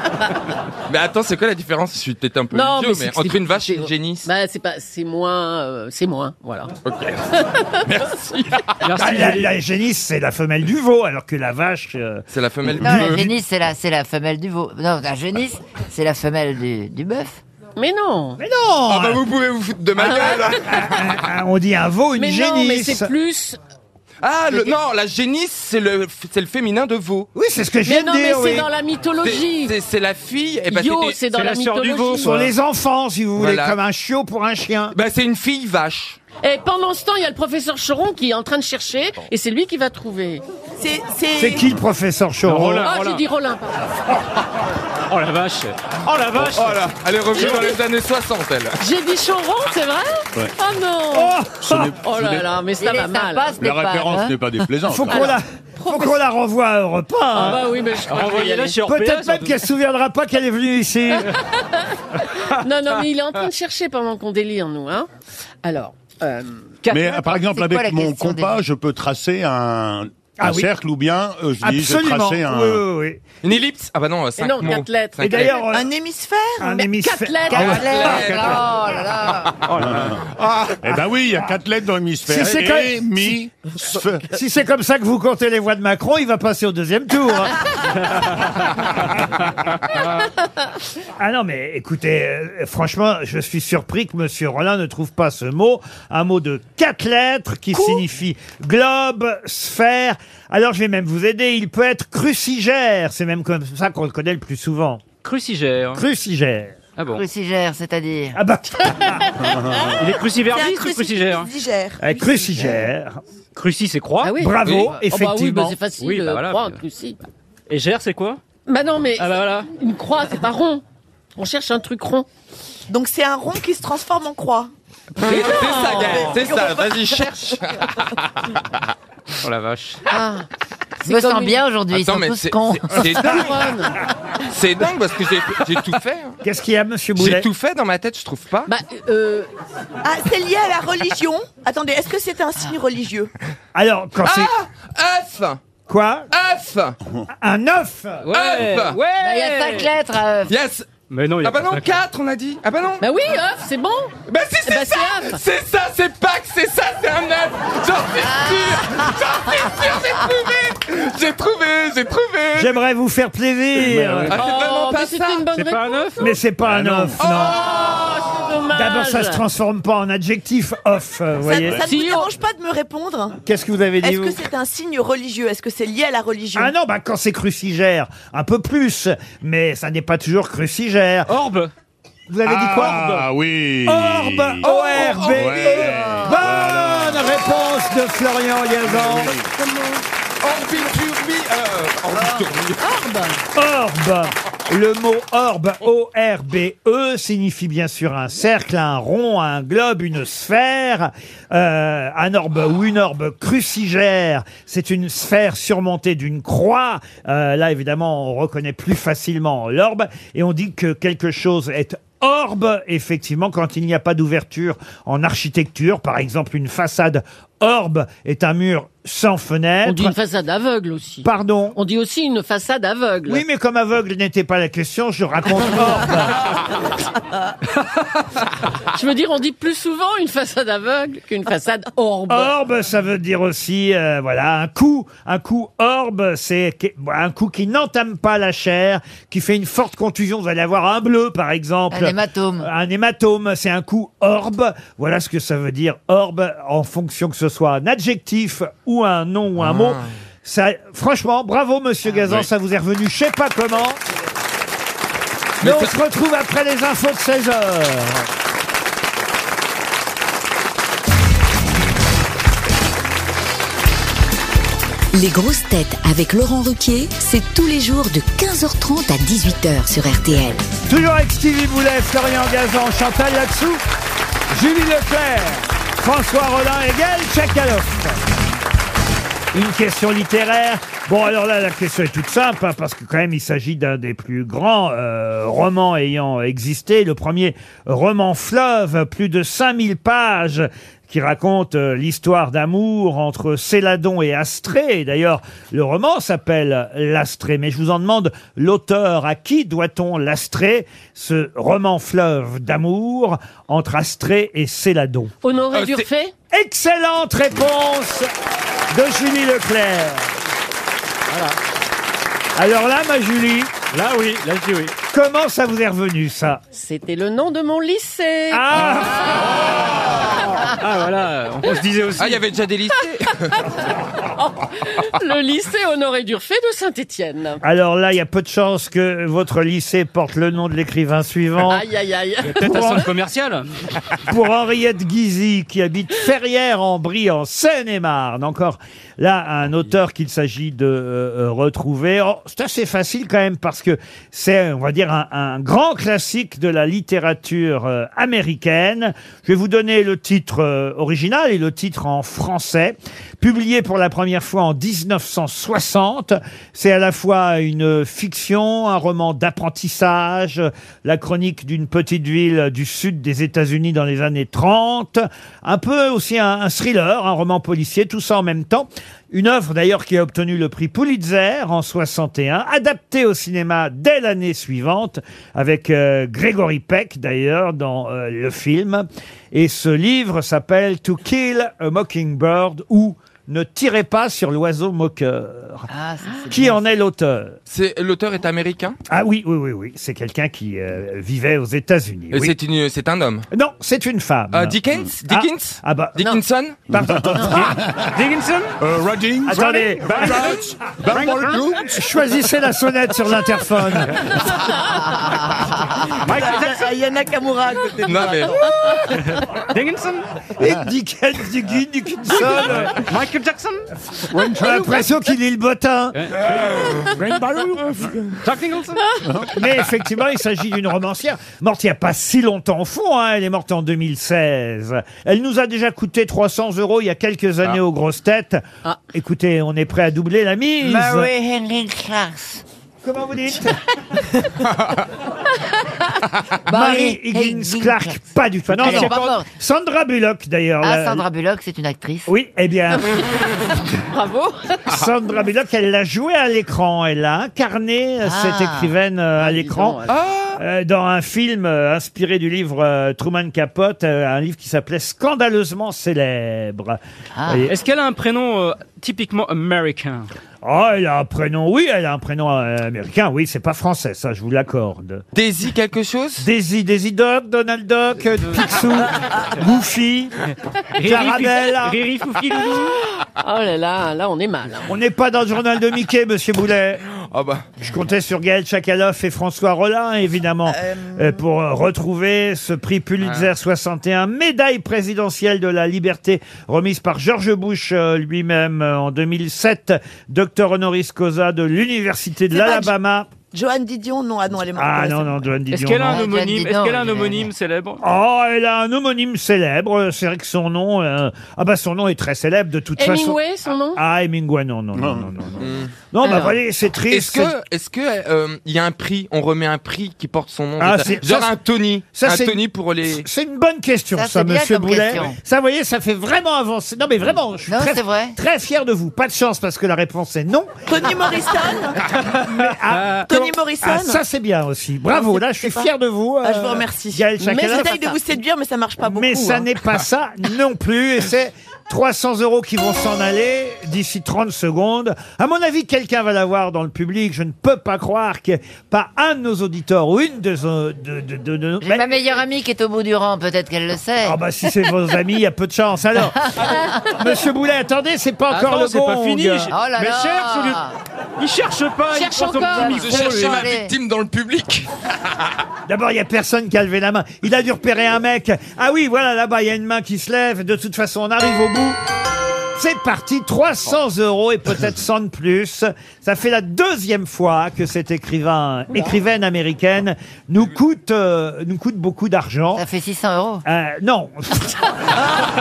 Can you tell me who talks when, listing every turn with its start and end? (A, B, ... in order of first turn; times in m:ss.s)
0:00.9-0:04.3 A
0:02.5-0:06.7 B
0:06.8-0:08.8 A
0:07.4-0:07.7 B
0:08.8-0:09.5 C
0:09.0-0:13.2 D
0:12.3-0:13.3 A
0:12.7-0:17.4 E
0:17.8-0:18.4 B
0:18.4-0:19.2 D
0:18.9-0:21.2 A
0:20.0-0:20.8 B
0:20.5-0:23.1 D
0:22.2-0:23.6 B
0:24.2-0:27.3 A
0:27.3-0:28.7 D
0:27.8-0:29.7 B
0:29.2-0:31.2 A
0:30.7-0:32.3 B
0:31.3-0:32.5 C
0:32.2-0:35.0 D
0:33.4-0:33.8 A
0:34.9-0:36.2 A
0:36.4-0:40.4 B
0:40.8-0:41.7 F
0:41.4-0:42.9 D
0:42.4-0:43.2 C
0:42.8-0:44.0 B
0:45.1-0:47.8 C
0:46.4-0:48.8 A
0:47.3-0:47.7 B
0:48.8-0:51.4 B
0:51.1-0:51.9 D
0:51.6-0:52.5 G
0:52.0-0:53.5 B
0:52.8-0:54.4 E
0:53.6-0:55.3 G
0:54.8-0:57.6 D
0:55.1-0:56.2 B
0:57.3-0:58.8 B
0:58.0-0:59.6 C
0:58.8-1:01.3 D
1:01.2-1:05.1 B
1:05.6-1:06.7 B
1:06.8-1:07.4 C
1:06.9-1:12.8 G
1:07.3-1:08.6 E
1:10.4-1:10.7 D
1:11.6-1:13.2 D
1:13.4-1:15.5 A
1:14.4-1:15.6 B
1:15.2-1:15.9 D
1:15.4-1:16.7 F
1:16.6-1:18.6 D
1:16.8-1:18.4 B
1:17.5-1:19.5 E
1:17.9-1:18.6 A
1:19.7-1:20.2 C
1:19.7-1:24.3 G
1:22.2-1:23.3 D
1:24.3-1:28.2 D
1:31.2-1:45.0 D
1:45.2-1:46.0 C
1:45.9-1:46.8 D
1:47.0-1:47.2 C
1:47.1-1:48.4 E
1:48.3-1:49.4 D
1:49.4-1:49.9 G
1:50.0-1:51.5 C
1:50.0-1:52.8 F
1:52.0-1:53.2 D
1:53.5-1:54.8 C
1:54.2-1:57.2 B
1:54.4-1:55.8 D
1:56.0-1:56.8 C
1:57.7-1:58.4 C
1:58.7-2:00.8 B
1:59.2-1:59.7 C
2:01.4-2:02.3 B
2:02.9-2:04.7 F
2:05.2-2:08.5 A
2:05.3-2:06.3 B
2:05.3-2:07.3 F
2:09.4-2:10.0 C
2:10.1-2:10.5 B
2:11.0-2:11.6 B
2:11.0-2:13.2 E
2:11.9-2:13.7 A
2:12.9-2:14.0 B
2:14.5-2:16.4 A
2:16.4-2:17.5 D
2:17.2-2:18.7 A
2:18.7-2:19.5 B
2:20.0-2:23.3 F
2:23.7-2:24.5 D
2:24.2-2:25.6 A
2:25.9-2:26.3 D
2:26.3-2:27.0 A
2:27.4-2:28.3 D
2:28.2-2:29.9 C
2:28.3-2:29.0 A
2:29.2-2:30.5 E
2:30.5-2:30.9 A
2:31.1-2:32.0 C
2:31.4-2:33.1 A
2:33.0-2:35.4 B
2:34.3-2:42.8 A
2:38.3-2:39.0 E
2:42.6-2:44.4 D
2:43.8-2:44.3 C
2:44.3-2:45.5 A
2:44.3-2:46.2 B
2:45.5-2:46.4 C
2:46.2-2:47.6 D
2:46.7-2:47.2 G
2:47.2-2:48.1 A
2:47.4-2:49.4 B
2:48.7-2:51.8 D
2:51.4-2:53.4 F
2:51.8-2:52.3 B
2:53.4-2:54.4 D
2:54.0-2:56.7 F
2:56.5-3:01.3 D
3:01.3-3:01.7 C
3:02.3-3:03.2 D
3:02.4-3:04.6 G
3:03.8-3:09.4 D
3:04.6-3:06.0 A
3:05.2-3:07.4 G
3:08.8-3:09.5 G
3:10.4-3:12.8 A
3:12.8-3:13.4 B
3:13.5-3:40.1 D
3:39.8-3:43.4 B
3:41.2-3:41.8 D
3:43.3-3:46.5 D
3:48.9-3:52.5 B
3:52.3-4:14.0 D
4:01.9-4:02.7 E
4:09.6-4:10.1 A
4:15.6-4:15.9 A
4:15.6-4:18.3 D
4:25.1-4:30.6 H
4:30.9-4:33.8 D
4:34.5-4:38.2 D
4:39.5-5:05.3 D
5:05.4-5:06.3 B
5:05.7-5:06.0 A
5:06.5-5:08.3 D
5:08.9-5:10.3 D
5:11.3-5:11.6 C
5:12.6-5:13.7 D
5:13.9-5:14.9 C
5:15.1-5:16.6 D
5:16.7-5:18.6 B
5:18.5-5:19.6 D
5:20.5-5:22.4 C
5:22.2-5:23.6 A
5:24.2-5:27.6 B
5:27.6-5:31.8 D
5:31.7-5:33.0 B
5:32.4-5:33.7 C
5:32.6-5:33.0 D
5:34.3-6:25.9 D
6:25.9-6:26.8 E
6:26.5-6:27.6 D
6:27.7-6:29.0 A
6:29.1-6:32.5 D
6:32.3-6:33.5 A
6:33.5-6:37.8 D
6:34.5-6:36.8 A
6:36.9-6:38.1 G
6:37.7-6:38.8 C
6:38.8-6:42.0 G
6:39.4-6:40.6 D
6:39.5-6:41.7 C
6:41.8-6:44.3 D
6:44.7-6:45.1 B
6:45.0-6:48.6 F
6:46.2-6:46.9 C
6:48.0-6:49.0 A
6:49.4-6:50.3 C
6:50.6-6:53.1 D
6:52.6-6:53.9 C
6:54.3-6:55.0 G
6:54.5-6:56.2 D
6:56.1-6:59.0 C
6:57.9-6:58.4 A
6:59.2-6:59.6 G
6:59.5-7:08.6 D
7:09.1-7:11.3 D
7:10.8-7:12.6 E
7:13.0-7:13.8 D
7:16.7-7:19.5 E
7:16.7-7:21.2 D
7:18.8-7:19.4 C
7:20.8-7:22.3 E
7:22.3-7:23.1 D
7:24.1-7:24.9 B
7:24.9-7:30.0 D
7:28.2-7:29.0 E
7:29.4-7:30.2 B
7:30.1-7:30.6 A
7:30.6-7:37.7 D
7:37.3-7:37.7 E
7:37.7-7:40.3 C
7:40.6-7:45.2 D
7:45.3-7:46.5 A
7:46.4-7:50.4 D
7:51.0-7:53.0 C
7:51.0-7:52.0 D
7:53.2-7:54.9 B
7:54.9-7:57.0 D
7:57.2-7:57.7 A
7:57.8-8:13.3 D
8:00.7-8:01.4 F
8:12.5-8:12.9 F
8:13.5-8:15.4 F
8:14.7-8:16.2 D
8:15.7-8:18.0 C
8:16.0-8:17.5 E
8:18.0-8:23.4 D
8:23.0-8:24.0 B
8:24.0-8:27.5 D
8:24.9-8:25.3 G
8:25.6-8:25.9 A
8:26.2-8:26.6 B
8:27.1-8:33.2 A
8:30.8-8:31.5 D
8:32.1-8:41.3 D
8:34.1-8:35.4 E
8:37.7-8:38.4 E
8:40.9-8:42.1 F
8:42.4-8:48.0 D
8:42.9-8:43.3 C
8:43.2-8:44.2 F
8:45.1-8:45.9 F
8:46.4-8:49.7 F
8:47.4-8:48.2 B
8:49.0-9:02.0 D
9:01.8-9:04.4 E
9:04.2-9:09.7 D
9:06.4-9:06.8 E
9:08.5-9:10.8 C
9:09.7-9:10.9 E
9:11.4-9:13.6 C
9:12.1-9:13.1 B
9:12.4-9:13.9 E
9:12.9-9:14.9 A
9:15.9-9:22.0 D
9:22.8-9:32.8 D
9:32.7-9:33.6 E
9:33.6-9:34.8 D